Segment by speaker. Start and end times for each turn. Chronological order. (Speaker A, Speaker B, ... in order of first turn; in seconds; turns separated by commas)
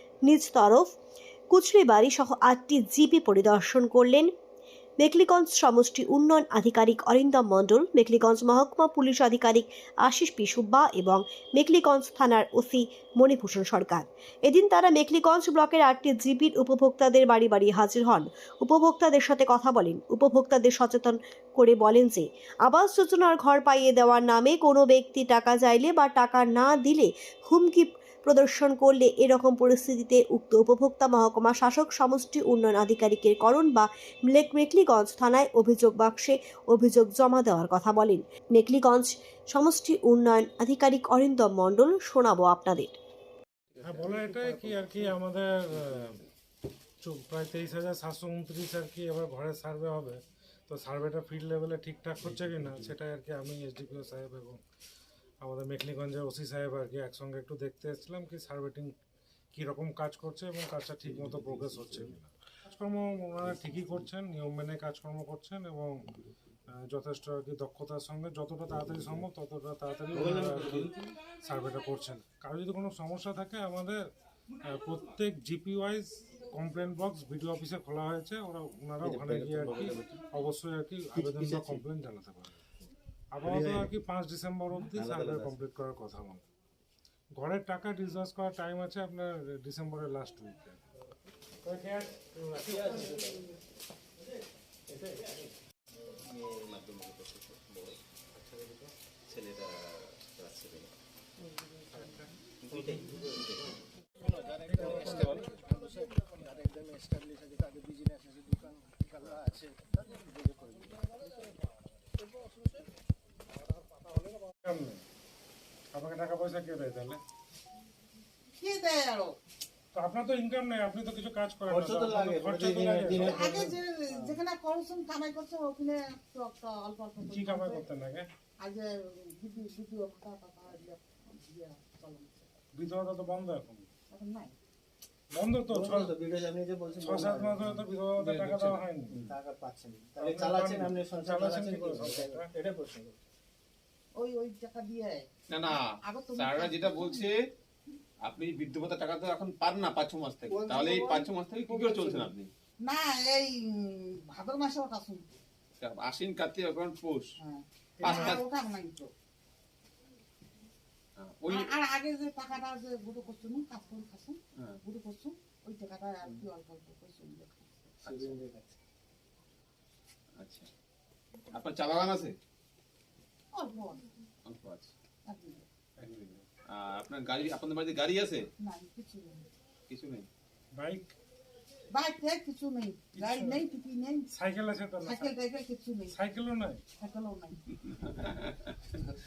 Speaker A: 0.3-0.9, Speaker A: 1.5-4.3, Speaker A: 5.0-43.0, Speaker B: 43.8-46.2, Speaker B: 47.0-54.6, Speaker B: 55.4-58.9, Speaker B: 59.5-66.0, Speaker B: 66.9-74.0, Speaker C: 70.1-70.9, Speaker B: 74.7-82.6, Speaker C: 79.0-80.1, Speaker C: 81.1-81.8, Speaker B: 83.3-86.4, Speaker C: 83.4-83.9, Speaker C: 84.9-85.6, Speaker B: 87.4-90.8, Speaker B: 91.6-93.2, Speaker C: 92.7-93.4, Speaker C: 94.9-95.2, Speaker C: 96.2-100.9, Speaker B: 101.9-103.5, Speaker C: 102.7-103.7, Speaker C: 104.2-111.5, Speaker B: 104.7-105.4, Speaker D: 104.8-105.5, Speaker C: 112.2-112.8, Speaker B: 114.6-115.0, Speaker B: 115.9-117.2, Speaker E: 118.5-119.4, Speaker B: 119.9-123.5, Speaker C: 121.7-124.4, Speaker E: 123.2-127.8, Speaker B: 127.2-128.3, Speaker E: 128.6-132.6, Speaker B: 132.8-133.9, Speaker E: 134.1-134.6, Speaker B: 135.3-136.1, Speaker C: 135.7-137.8, Speaker B: 137.0-139.2, Speaker D: 138.2-139.3, Speaker C: 139.2-143.2, Speaker B: 140.2-142.5, Speaker E: 144.2-147.3, Speaker D: 145.5-147.3, Speaker D: 148.2-152.5, Speaker C: 150.5-151.3, Speaker E: 151.7-155.4, Speaker D: 155.8-157.3, Speaker E: 157.4-159.1, Speaker C: 158.0-158.4, Speaker D: 158.0-158.4, Speaker D: 161.2-161.7, Speaker E: 161.5-168.0, Speaker C: 168.0-168.8, Speaker D: 168.1-168.3, Speaker D: 170.4-170.7, Speaker D: 171.5-172.3, Speaker E: 173.5-174.1, Speaker D: 174.4-174.9, Speaker E: 175.2-175.7, Speaker B: 176.0-176.4, Speaker D: 176.7-178.4, Speaker E: 178.6-179.5, Speaker D: 179.9-180.3, Speaker B: 180.8-181.1, Speaker E: 181.9-184.3, Speaker B: 183.1-183.7, Speaker B: 184.3-185.3, Speaker E: 185.0-186.2, Speaker B: 186.1-186.8, Speaker E: 187.0-187.7, Speaker D: 187.9-188.8